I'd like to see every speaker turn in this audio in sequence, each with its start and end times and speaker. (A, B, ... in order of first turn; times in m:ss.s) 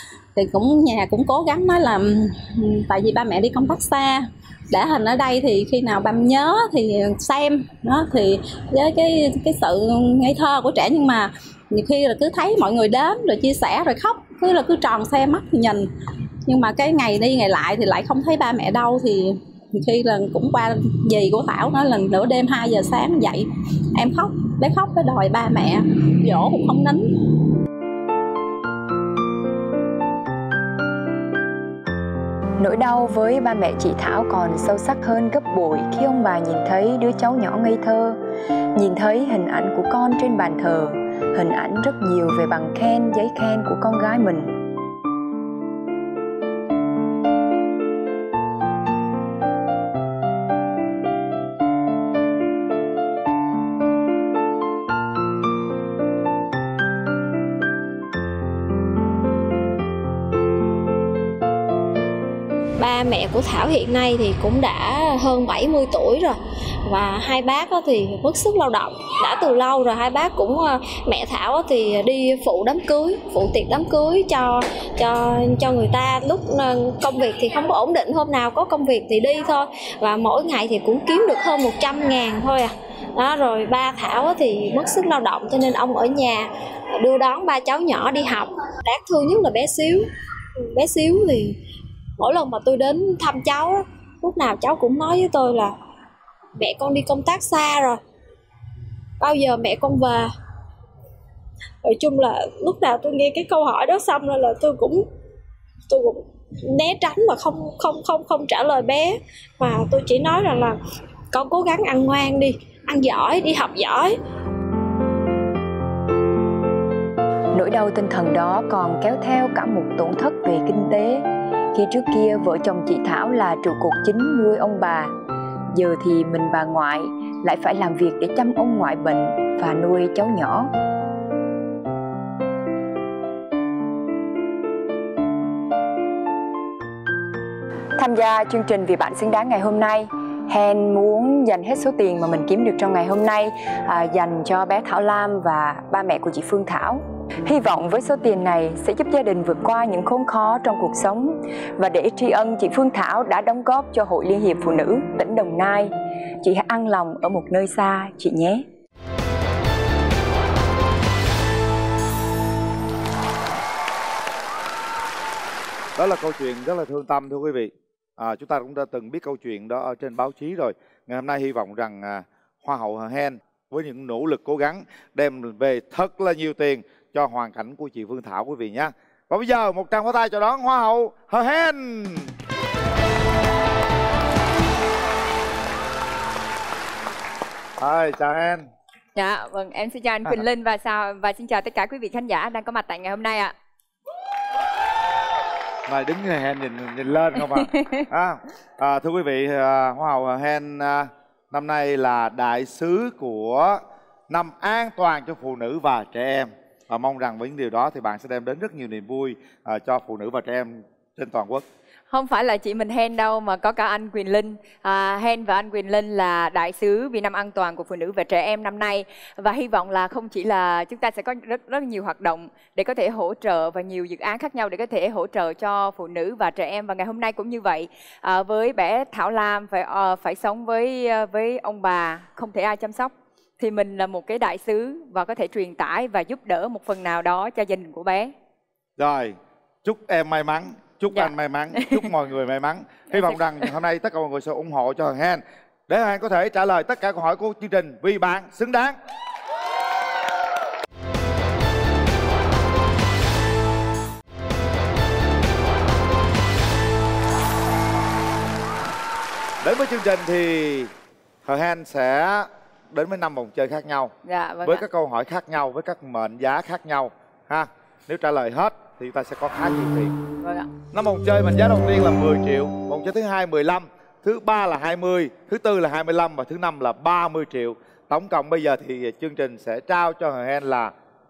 0:00.4-0:15.9 A
0:16.5-0:27.3 A
0:32.6-0:38.2 B
0:38.8-0:44.5 B
1:02.8-1:31.6 C
1:32.2-1:35.8 C
1:36.6-1:38.0 C
1:39.2-1:40.3 C
1:41.8-1:45.0 C
1:45.9-1:50.8 C
1:51.3-1:54.2 C
1:57.5-2:05.1 B
2:05.7-2:10.7 B
2:18.0-2:38.7 B
2:46.0-3:02.3 D
3:07.8-3:08.7 D
3:09.2-3:13.5 E
3:15.9-3:31.7 D
3:17.4-3:18.1 E
3:32.1-3:58.3 E
3:59.0-4:09.0 D
4:01.1-4:02.1 E
4:03.1-4:03.7 E
4:19.6-4:20.9 D
4:21.4-4:30.2 D
4:24.2-4:24.8 E
4:30.4-4:30.7 E
4:30.9-4:40.9 D